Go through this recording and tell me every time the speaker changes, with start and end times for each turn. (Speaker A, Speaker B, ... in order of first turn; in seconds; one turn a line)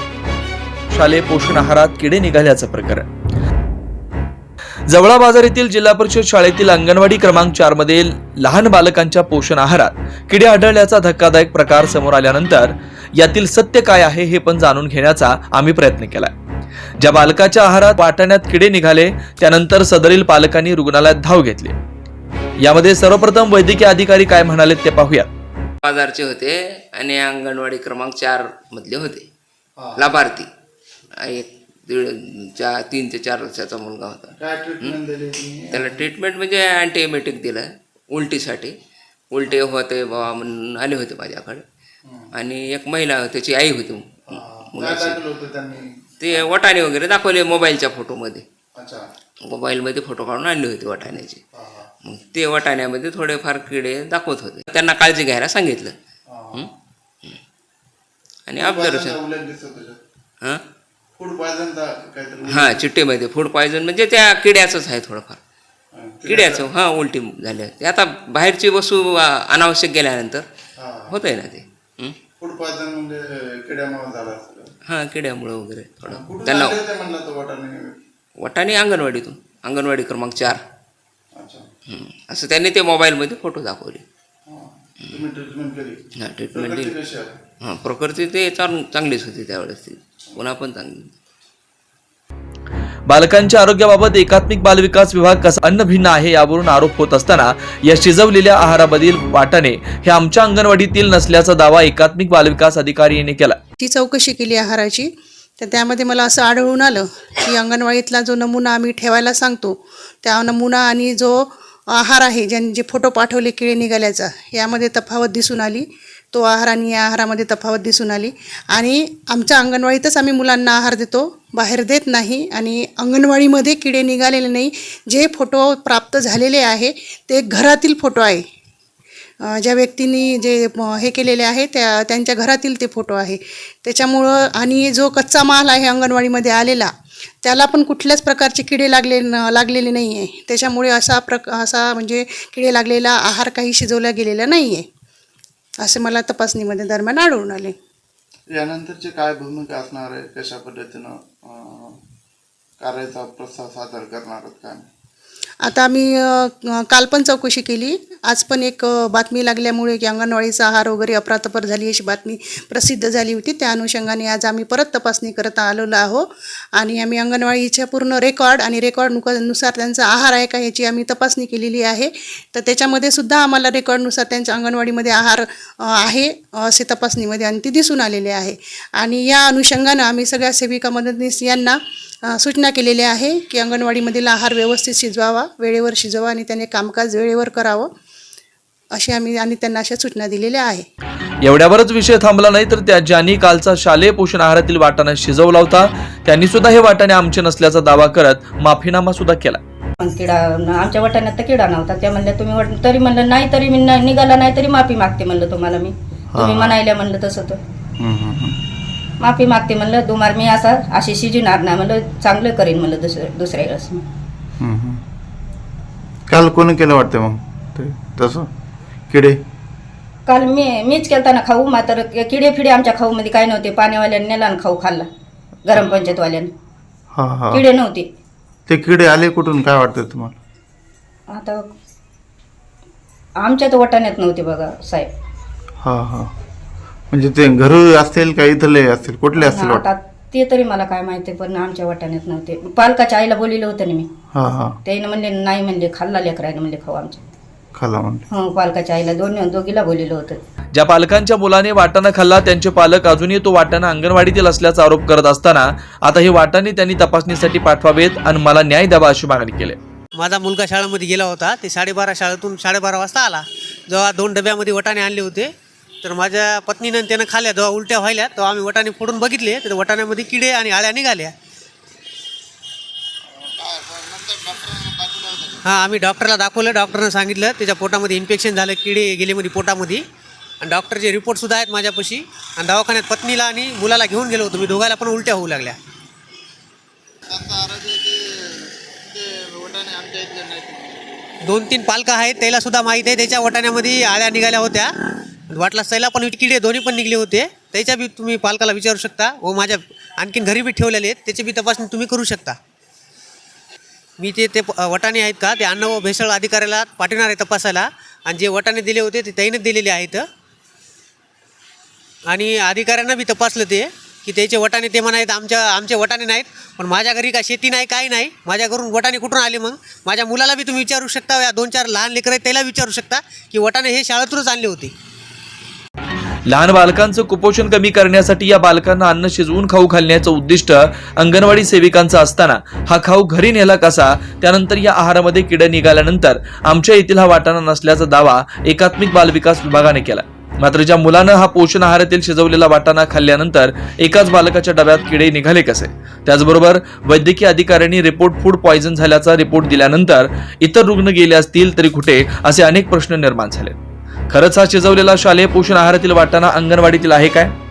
Speaker A: 0.9-3.1
Speaker A: 4.9-16.3
Speaker A: 17.0-21.8
Speaker A: 22.6-25.3
Speaker B: 25.8-29.2
Speaker C: 29.8-30.1
Speaker B: 30.0-30.5
Speaker B: 31.2-35.0
Speaker C: 34.4-36.1
Speaker B: 35.7-38.7
Speaker B: 39.3-41.6
Speaker B: 42.4-45.2
Speaker C: 44.3-46.5
Speaker B: 46.2-48.4
Speaker C: 48.8-49.0
Speaker B: 49.4-51.4
Speaker C: 51.5-51.9
Speaker B: 52.0-55.9
Speaker C: 56.3-56.7
Speaker B: 58.5-59.2
Speaker C: 58.6-60.0
Speaker C: 61.2-62.9
Speaker B: 62.5-65.4
Speaker C: 65.9-66.7
Speaker B: 66.2-70.5
Speaker C: 70.8-71.2
Speaker B: 71.1-72.2
Speaker C: 72.4-74.7
Speaker B: 74.9-76.8
Speaker C: 76.0-78.0
Speaker B: 78.4-80.6
Speaker C: 81.3-81.7
Speaker B: 81.9-84.0
Speaker C: 84.5-86.0
Speaker B: 86.2-87.0
Speaker C: 86.5-87.4
Speaker B: 87.6-91.1
Speaker A: 93.1-103.6
Speaker D: 103.8-128.4
Speaker D: 129.4-136.9
Speaker D: 137.4-144.9
Speaker D: 145.8-147.8
Speaker C: 148.5-152.0
Speaker C: 152.8-154.9
Speaker D: 155.6-187.9
Speaker D: 188.9-190.8
Speaker A: 191.4-199.6
Speaker E: 200.0-207.6
Speaker C: 206.3-206.8
Speaker C: 208.0-208.6
Speaker E: 209.2-214.0
Speaker C: 214.6-215.0
Speaker C: 216.3-218.5
Speaker C: 219.1-219.4
Speaker E: 220.3-225.1
Speaker E: 225.7-226.5
Speaker C: 227.1-227.7
Speaker E: 227.5-228.1
Speaker C: 228.7-230.4
Speaker E: 231.3-231.7
Speaker E: 233.4-235.1
Speaker C: 235.8-236.3
Speaker C: 237.1-239.8
Speaker E: 239.4-244.1
Speaker C: 244.3-244.8
Speaker E: 244.8-247.2
Speaker C: 247.8-248.3
Speaker E: 248.3-250.4
Speaker A: 250.7-259.8
Speaker F: 260.2-265.5
Speaker F: 266.0-271.3
Speaker C: 273.6-275.5
Speaker F: 275.6-280.1
Speaker F: 280.6-285.8
Speaker C: 287.3-288.1
Speaker C: 289.1-290.8
Speaker F: 291.4-294.9
Speaker F: 295.5-302.6
Speaker F: 304.2-310.3
Speaker F: 312.3-324.9
Speaker A: 326.5-353.8
Speaker A: 354.3-357.5